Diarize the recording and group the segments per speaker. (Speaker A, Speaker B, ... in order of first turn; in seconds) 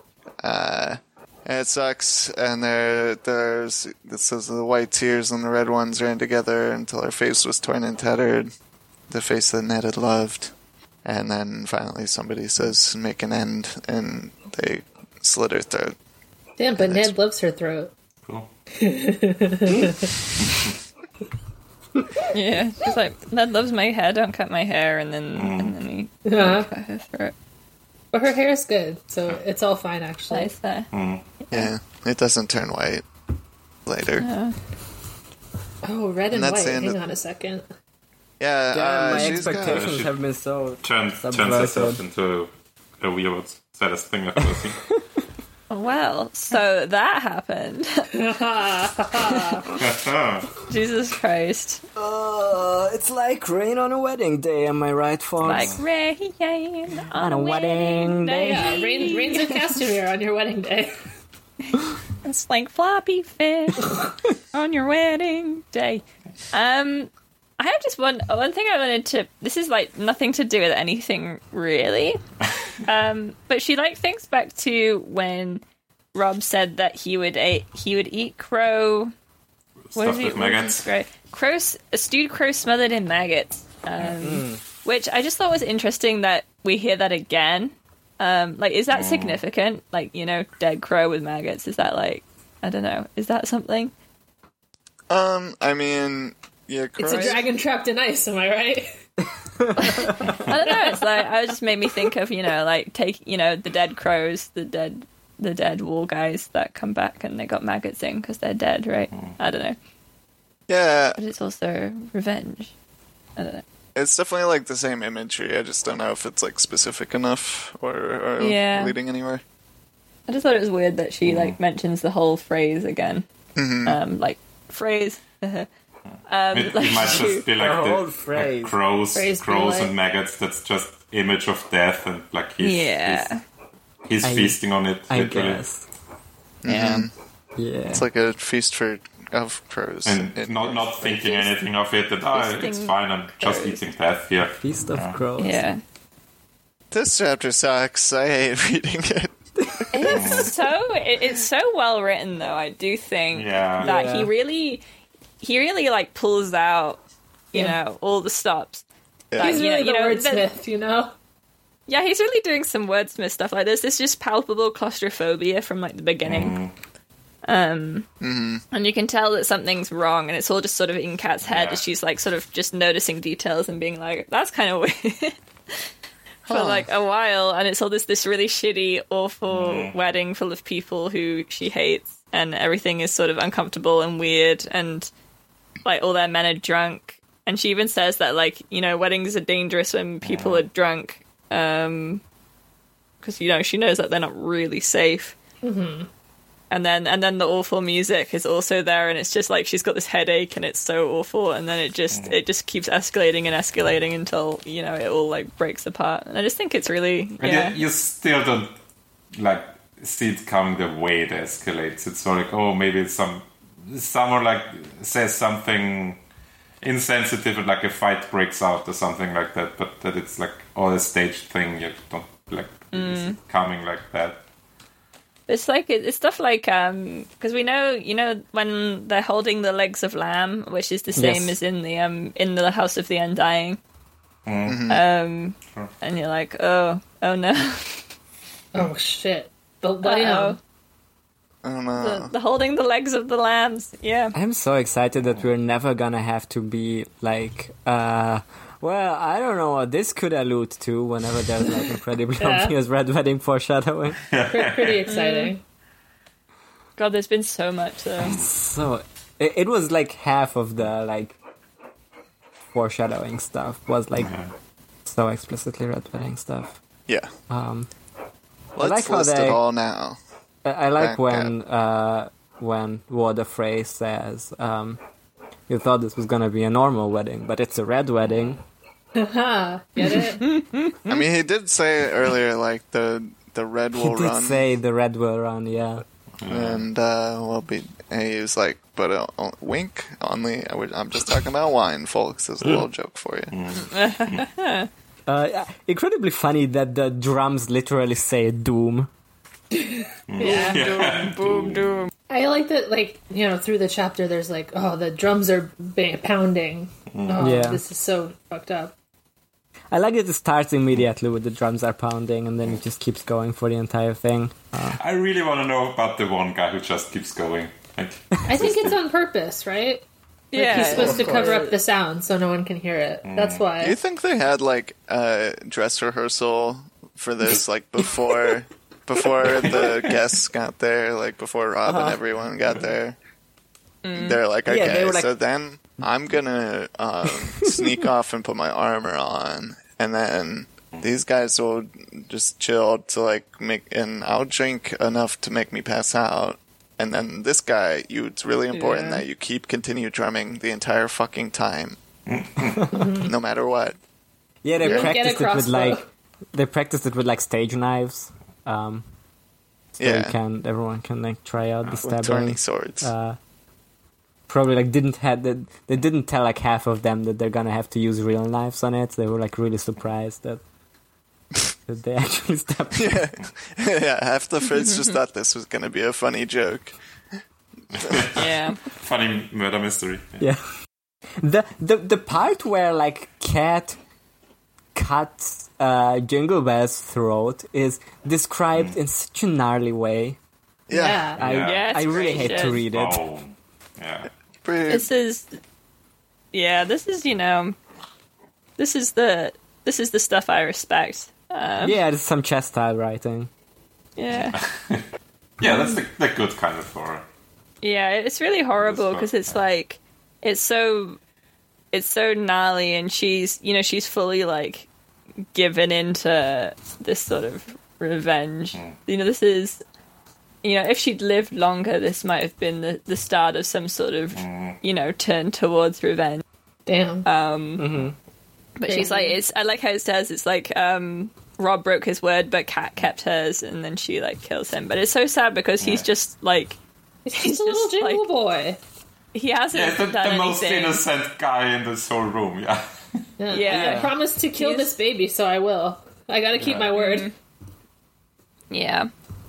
Speaker A: 0.4-8.5, 9.1-10.5, 11.0-15.9, 16.8-17.1, 31.5-33.0, 33.9-34.2, 36.3-37.0, 38.4-39.9, 95.1-97.5, 110.7-111.2, 113.9-119.4, 123.5-124.0, 136.6-137.1, 137.9-141.4, 146.9-150.4, 159.3-159.6, 168.2-168.6, 176.5-176.9, 234.7-235.0, 241.6-242.3, 268.8-270.2, 271.0-271.5, 281.1-284.6, 286.5-293.5, 323.8-333.1, 334.1-352.0, 353.2-353.9, 354.8-355.1, 360.0-360.4, 362.0-363.1, 372.9-376.9, 378.0-378.3, 390.9-391.3, 394.6-395.1
Speaker B: 16.6-17.9, 18.8-20.2, 26.2-26.7, 28.1-30.5, 35.8-37.6, 48.1-49.7, 58.4-60.9, 97.0-98.9, 99.8-100.9, 129.1-129.9, 159.4-161.1, 195.6-196.1, 238.7-240.6, 252.4-252.7, 254.5-255.6, 279.1-280.5, 299.7-300.9, 302.3-308.9, 318.4-320.0, 320.5-324.0, 352.9-353.3, 354.8-356.0, 390.9-391.4, 426.9-427.3, 428.9-429.4, 437.2-438.8, 443.4-447.3
Speaker C: 20.4-20.7, 25.3-25.7, 30.9-31.2, 39.5-40.1, 40.8-44.8, 49.8-50.5, 55.4-55.8, 79.9-80.8, 88.9-89.4, 121.2-121.5, 126.5-133.3, 134.1-135.6, 140.0-145.2, 150.1-150.5, 153.3-153.9, 166.2-166.7, 171.4-171.8, 179.5-179.9, 190.2-190.6, 202.1-202.4, 207.4-208.7, 209.3-216.2, 216.8-224.4, 234.4-234.8, 254.3-255.1, 258.2-258.5, 264.1-264.5, 286.4-286.8, 293.5-294.4, 300.3-302.0, 307.1-307.5, 314.9-319.0, 323.2-323.6, 352.3-352.8, 377.9-380.4, 391.4-394.3, 404.5-405.0, 405.6-407.2, 408.8-409.5, 424.3-424.8, 435.8-436.1, 439.7-442.9, 446.6-446.9
Speaker D: 22.3-27.3, 30.3-30.9, 31.4-31.7, 34.2-34.5, 45.7-48.1, 49.2-49.6, 50.7-51.8, 55.4-59.6, 61.7-64.0, 64.5-72.2, 72.8-75.6, 76.1-79.1, 79.9-93.9, 97.1-97.4, 99.8-109.8, 111.2-112.7, 113.4-113.6, 118.4-118.9, 120.3-123.2, 123.8-125.7, 126.3-127.4, 132.6-133.4, 136.7-137.1, 142.3-143.8, 145.4-145.8, 149.9-154.8, 155.4-157.0, 157.5-158.8, 159.4-160.4, 161.9-166.6, 167.4-168.1, 168.7-175.3, 176.5-185.1, 185.8-192.2, 193.2-195.3, 196.7-207.8, 222.9-223.4, 225.5-233.8, 234.9-238.1, 240.0-240.6, 242.0-244.3, 255.1-255.5, 257.0-258.4, 280.0-281.2, 293.9-294.9, 300.4-302.1, 320.5-321.8, 334.0-334.4, 348.7-349.2, 378.3-378.8, 391.6-392.8, 394.9-395.6, 396.5-397.8, 398.8-402.0, 404.2-404.6, 407.8-411.2, 411.9-414.9, 415.5-419.8, 420.6-426.4, 427.2-427.9, 428.8-436.8, 437.3-438.3, 439.3-441.0, 443.5-444.9, 446.9-447.3, 448.7-449.1
Speaker E: 38.7-42.0, 51.9-55.7, 57.1-58.7, 84.2-84.6, 127.5-128.7, 134.2-135.8, 137.6-138.1, 144.6-145.6, 153.8-154.3, 231.2-231.6, 244.3-254.2, 258.2-261.4, 262.7-264.3, 265.0-266.8, 267.5-267.9, 268.8-269.6, 270.6-275.0, 275.7-278.6, 283.9-286.0, 295.3-299.1, 307.4-307.8, 309.9-315.0, 320.7-321.5, 331.8-332.2, 334.7-335.3, 337.3-337.9, 354.6-356.0, 356.5-359.0, 360.0-363.4, 364.5-370.6, 371.9-373.2, 380.4-380.6, 381.4-384.0, 384.9-390.4, 391.4-393.2, 401.8-403.5, 427.8-428.1, 443.7-444.1